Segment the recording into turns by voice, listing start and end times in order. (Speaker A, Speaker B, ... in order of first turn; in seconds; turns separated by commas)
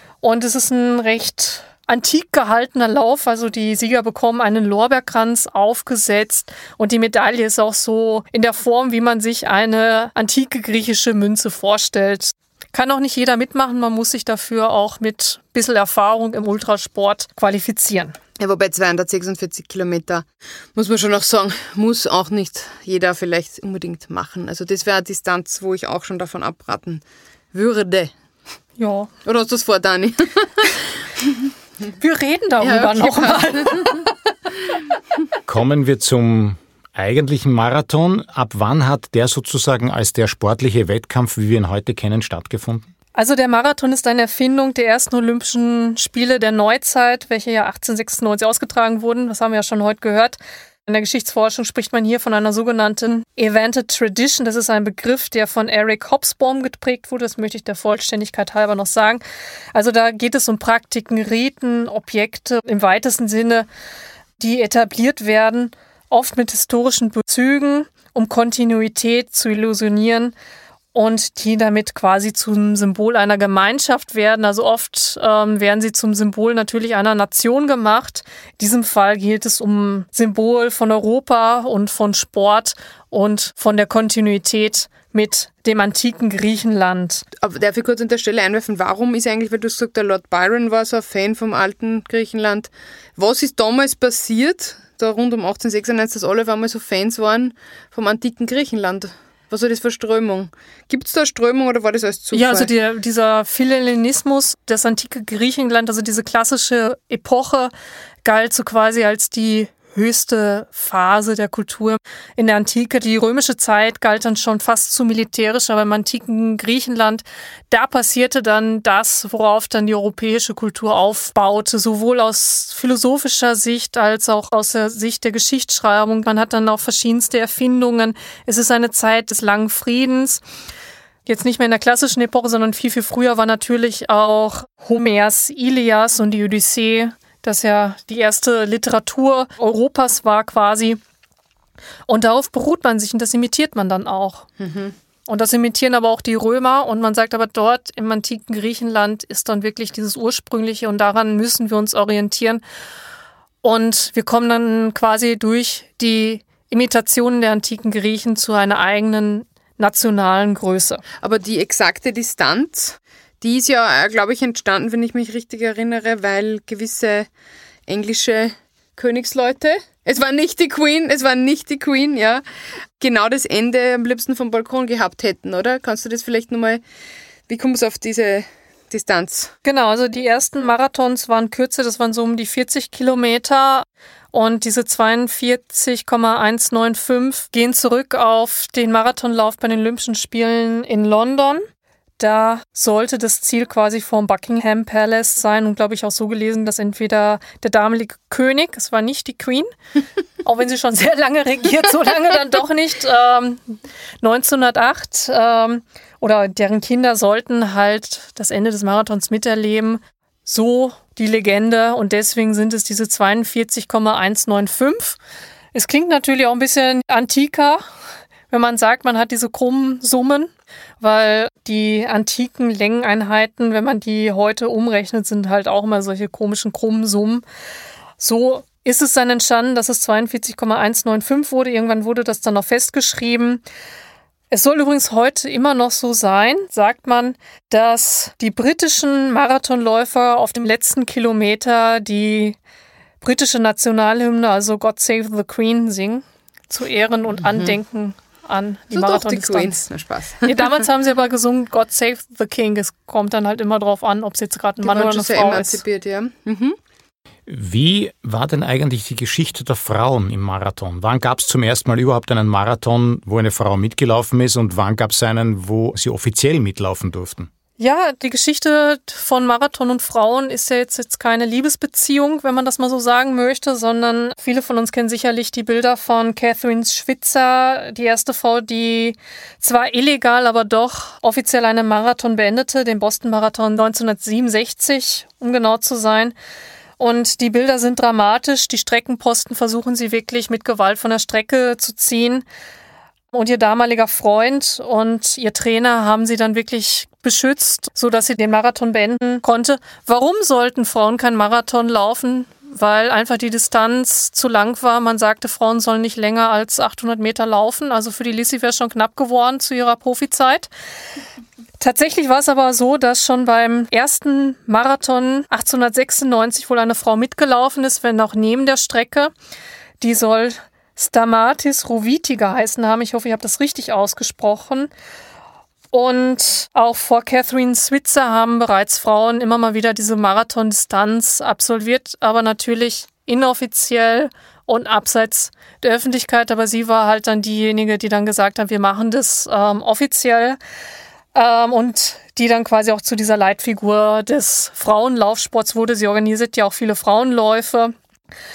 Speaker A: 0.2-18.2, Speaker B: 18.4-28.1, Speaker A: 28.8-29.1, Speaker B: 29.2-31.4, Speaker A: 32.0-34.0, Speaker B: 32.6-34.0, Speaker C: 35.5-42.9, Speaker A: 43.1-59.2, Speaker A: 59.8-63.7, Speaker A: 64.4-70.3, Speaker A: 70.9-87.2, Speaker B: 87.4-102.7, Speaker A: 102.3-107.7, Speaker A: 108.2-130.4, Speaker A: 131.3-141.0, Speaker A: 142.1-144.5, Speaker B: 144.6-144.9, Speaker A: 145.3-152.6, Speaker A: 153.6-161.0, Speaker B: 161.2-167.3, Speaker B: 167.9-172.4, Speaker B: 173.0-176.8, Speaker B: 177.5-179.5, Speaker A: 179.6-191.7, Speaker A: 192.2-199.7, Speaker A: 200.4-215.2, Speaker A: 215.7-217.8, Speaker A: 218.5-227.4, Speaker A: 228.2-233.6, Speaker A: 234.5-242.6, Speaker A: 243.2-249.8, Speaker B: 247.4-247.8, Speaker B: 248.9-250.7, Speaker A: 250.4-255.8, Speaker B: 254.8-256.8, Speaker C: 257.5-267.5, Speaker A: 267.8-286.4, Speaker A: 287.0-292.4, Speaker A: 293.3-310.7, Speaker A: 311.8-319.3, Speaker A: 320.0-324.9, Speaker A: 325.9-340.6, Speaker A: 341.4-347.9